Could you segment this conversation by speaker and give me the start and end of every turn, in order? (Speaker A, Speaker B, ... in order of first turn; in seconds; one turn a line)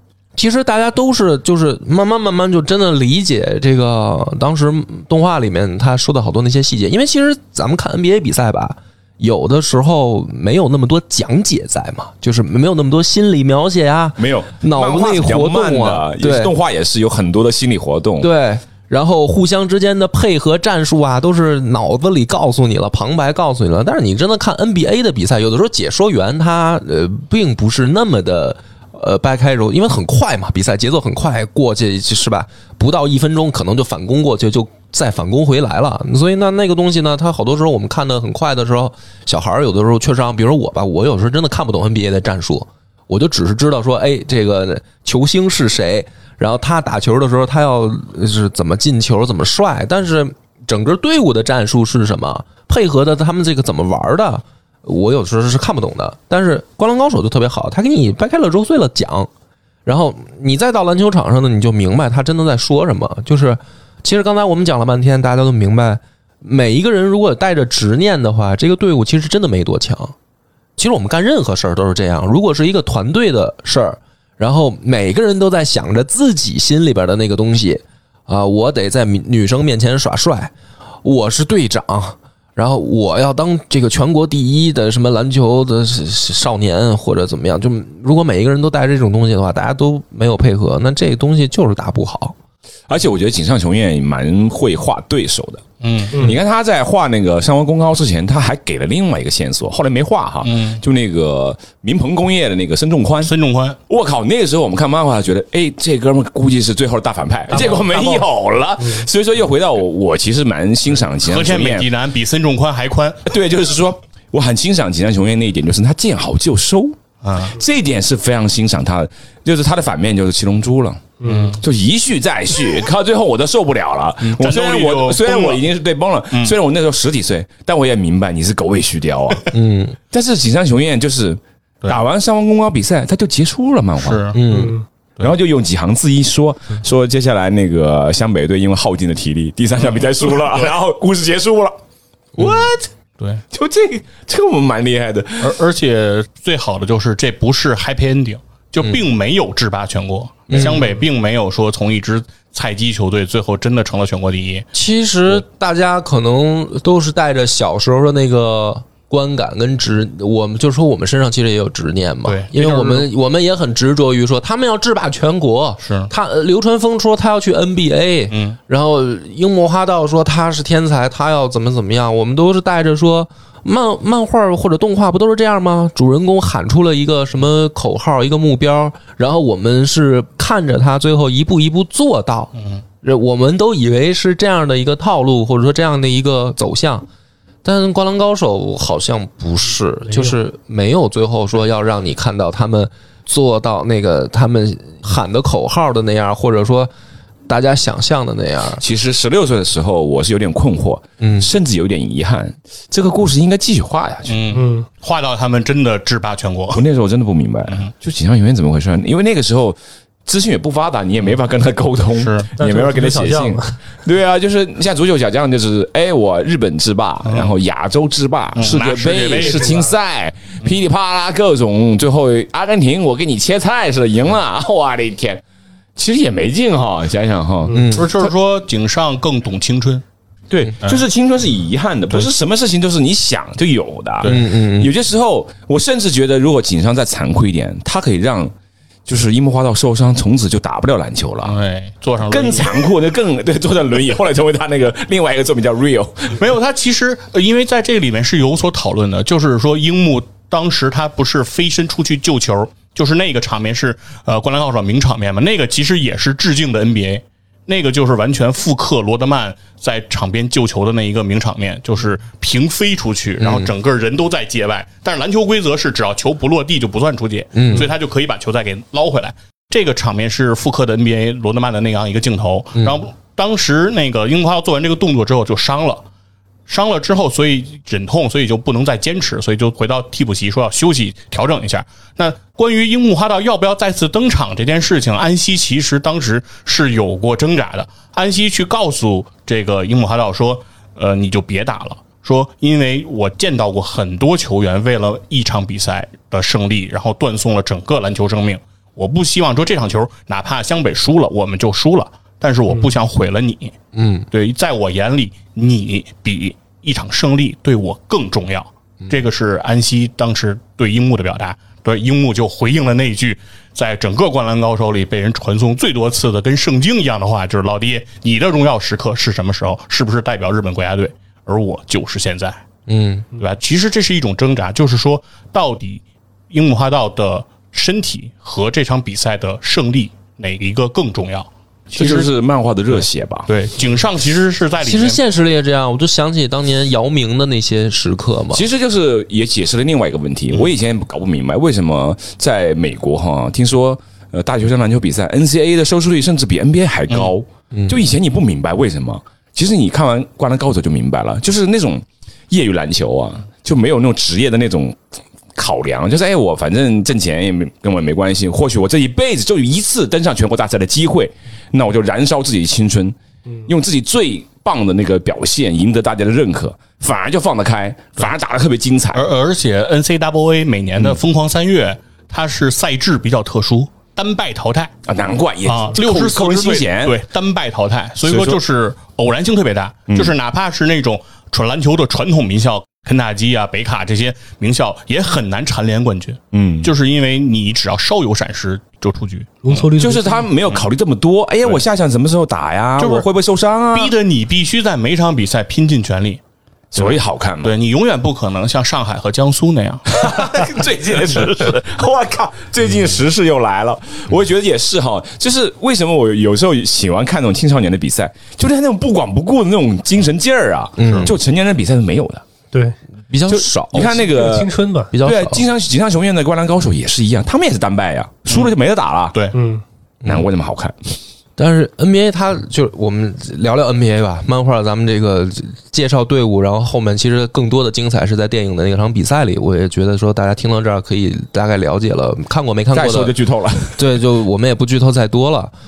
Speaker A: 0.4-16.5
Speaker B: 14.2-18.3
Speaker A: 18.2-59.3
Speaker A: 59.9-70.2
Speaker A: 70.8-80.5
Speaker A: 81.0-92.3
Speaker B: 92.9-103.3
Speaker C: 95.8-96.3
Speaker C: 100.4-100.8
Speaker C: 103.2-103.8
Speaker B: 103.9-111.9
Speaker C: 111.2-113.2
Speaker B: 113.3-129.5
Speaker C: 117.2-117.6
Speaker D: 121.2-121.5
Speaker C: 121.2-121.6
Speaker C: 124.2-125.6
Speaker C: 126.3-126.6
Speaker A: 129.5-130.0
Speaker B: 130.1-134.3
Speaker C: 134.0-135.3
Speaker A: 134.3-134.8
Speaker D: 134.5-134.8
Speaker B: 135.2-141.8
Speaker C: 139.9-140.5
Speaker B: 142.4-142.9
Speaker B: 143.5-145.6
Speaker C: 145.4-154.7
Speaker A: 150.5-150.9
Speaker A: 154.7-182.5
Speaker C: 162.2-163.1
Speaker C: 165.8-166.1
Speaker C: 168.3-168.6
Speaker C: 182.6-182.8
Speaker A: 183.0-187.1
Speaker A: 187.6-196.9
Speaker A: 197.5-198.8
Speaker B: 198.8-204.6
Speaker A: 201.2-201.5
Speaker C: 204.3-206.8
Speaker D: 204.5-204.9
Speaker B: 206.7-225.4
Speaker C: 212.2-212.5
Speaker D: 212.6-213.8
Speaker C: 217.2-217.5
Speaker C: 218.6-219.9
Speaker B: 226.0-228.0
Speaker A: 227.7-228.1
Speaker C: 227.7-230.0
Speaker B: 230.5-238.5
Speaker A: 234.2-234.9
Speaker B: 239.1-241.6
Speaker C: 241.4-242.8
Speaker B: 242.2-246.4
Speaker C: 246.4-276.1
Speaker A: 263.4-263.7
Speaker A: 267.6-267.9
Speaker C: 276.7-303.8
Speaker A: 303.9-304.3
Speaker C: 304.3-322.6
Speaker A: 322.9-323.2
Speaker C: 323.4-332.3
Speaker B: 331.9-333.5
Speaker C: 332.9-335.2
Speaker A: 334.8-338.6
Speaker B: 338.5-355.0
Speaker A: 347.7-348.0
Speaker B: 355.6-369.3
Speaker C: 369.1-374.9
Speaker B: 375.1-377.2
Speaker C: 375.6-389.9
Speaker B: 378.2-378.6
Speaker B: 380.1-380.4
Speaker B: 386.5-386.9
Speaker D: 389.6-390.5
Speaker B: 390.0-394.1
Speaker C: 393.0-393.3
Speaker C: 393.9-396.4
Speaker B: 396.9-397.8
Speaker C: 396.9-400.3
Speaker B: 400.1-412.4
Speaker A: 411.0-411.3
Speaker A: 413.3-414.3
Speaker B: 413.5-419.4
Speaker D: 414.0-415.1
Speaker A: 415.1-415.7
Speaker C: 418.5-418.7
Speaker D: 419.5-419.8
Speaker B: 420.2-421.2
Speaker A: 421.6-433.3
Speaker B: 432.9-434.1
Speaker A: 434.0-435.7